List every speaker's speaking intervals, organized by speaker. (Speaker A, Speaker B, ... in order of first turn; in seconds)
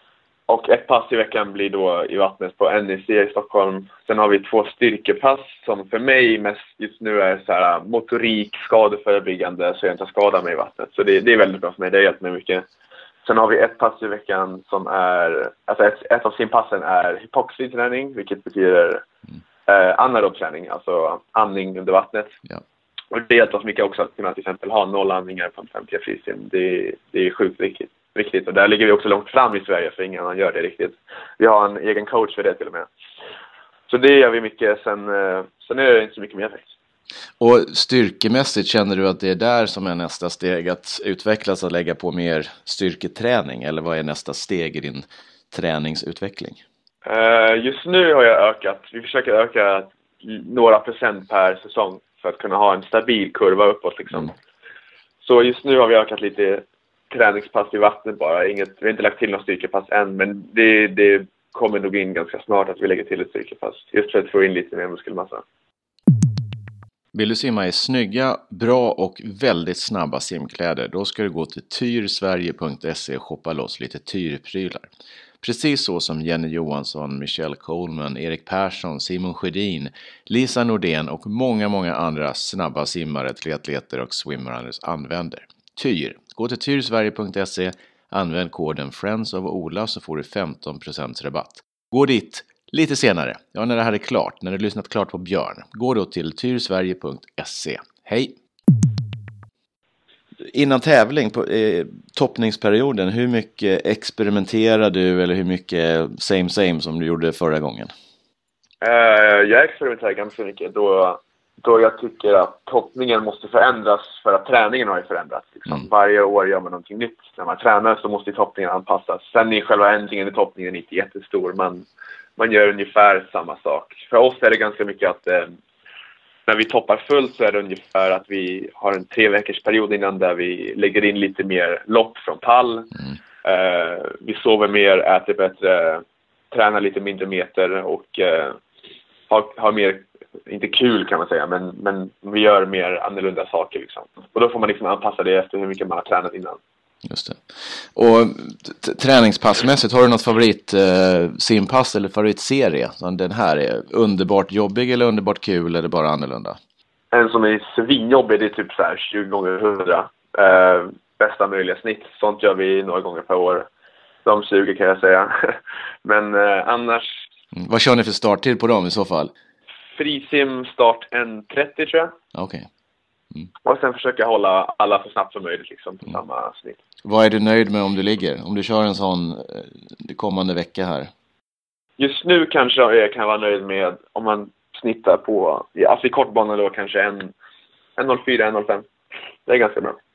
Speaker A: 0.5-12.7, 13.2-19.0, 19.7-22.4, 23.1-32.9, 33.9-36.7, 47.0-54.3, 55.2-65.4, 108.8-121.9, 122.4-125.5, 126.5-132.9, 133.4-138.6, 139.3-146.6, 157.1-163.7, 164.2-167.2, 170.0-172.1, 173.7-176.8, 182.0-187.3, 188.0-188.8, 189.5-190.0
Speaker B: 37.4-46.6, 67.1-74.9, 75.4-98.3, 100.5-107.9, 147.1-156.6, 167.6-169.3, 172.3-172.7, 177.1-181.1